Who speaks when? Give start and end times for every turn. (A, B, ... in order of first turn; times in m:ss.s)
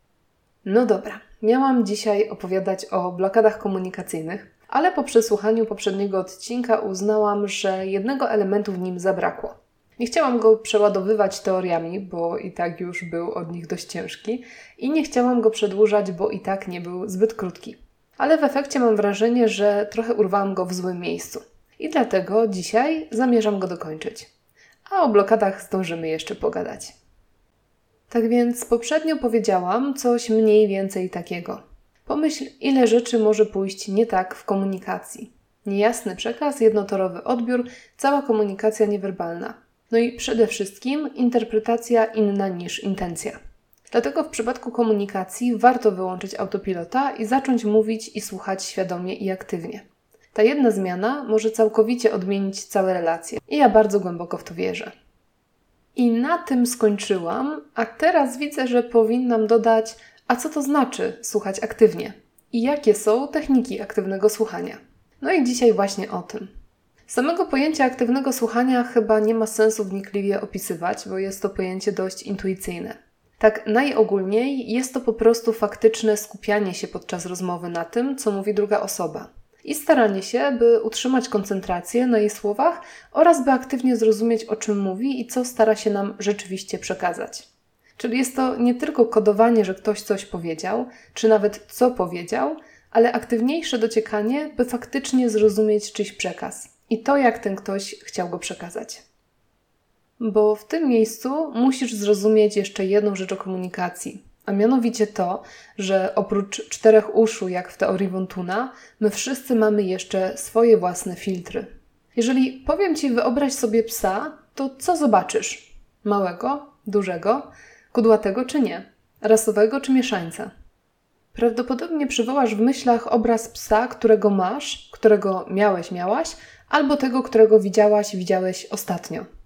0:00.6-0:24.3 A
0:24.9-0:27.0 A
0:28.1-0:43.4 A
0:43.9-0:54.9 A
0:56.0-1:06.5 A
1:07.1-1:39.0 A
1:40.2-2:00.5 A
2:01.3-2:09.3 A